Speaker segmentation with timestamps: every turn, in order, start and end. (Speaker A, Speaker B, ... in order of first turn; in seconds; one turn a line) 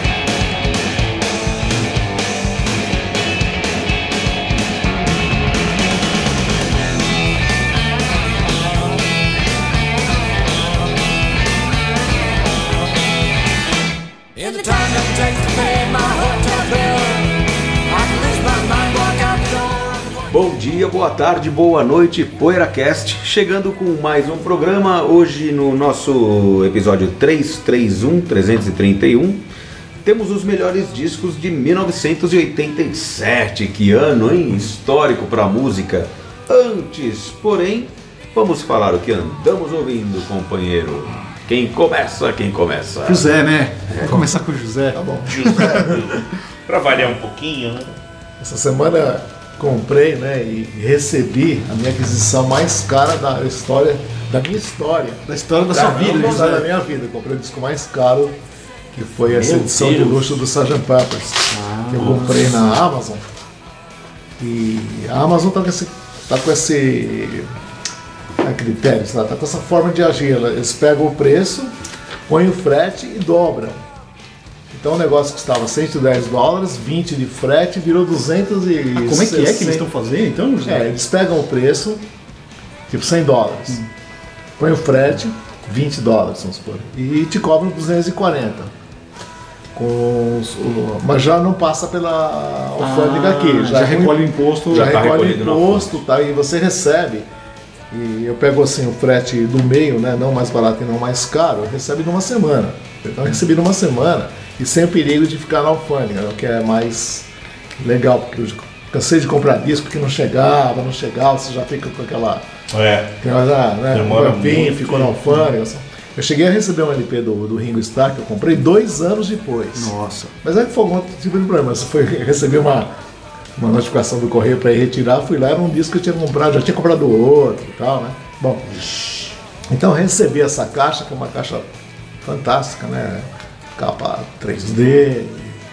Speaker A: 14.4-17.4
Speaker B: 14.5-17.0
Speaker A: 17.9-20.1
Speaker C: 20.3-29.4
Speaker C: 30.0-43.3
Speaker B: 43.0-45.6
Speaker C: 43.9-44.2
Speaker D: 44.9-46.1
Speaker E: 45.2-47.9
Speaker D: 48.4-58.4
Speaker B: 55.3-56.7
Speaker D: 58.9-63.3
Speaker E: 59.3-60.3
Speaker B: 61.5-62.4
Speaker D: 64.4-67.5
Speaker D: 68.4-71.7
Speaker D: 72.3-73.8
Speaker D: 74.7-79.8
Speaker B: 79.0-80.9
Speaker D: 80.7-82.0
Speaker D: 82.9-83.8
Speaker D: 84.6-88.7
Speaker D: 89.8-97.3
Speaker B: 92.8-95.0
Speaker C: 94.7-96.0
Speaker D: 97.9-107.3
Speaker D: 107.8-112.4
Speaker E: 112.7-113.1
Speaker D: 113.2-122.9
Speaker E: 113.9-115.2
Speaker B: 119.8-120.3
Speaker D: 123.6-128.8
Speaker D: 129.7-131.7
Speaker D: 132.2-135.6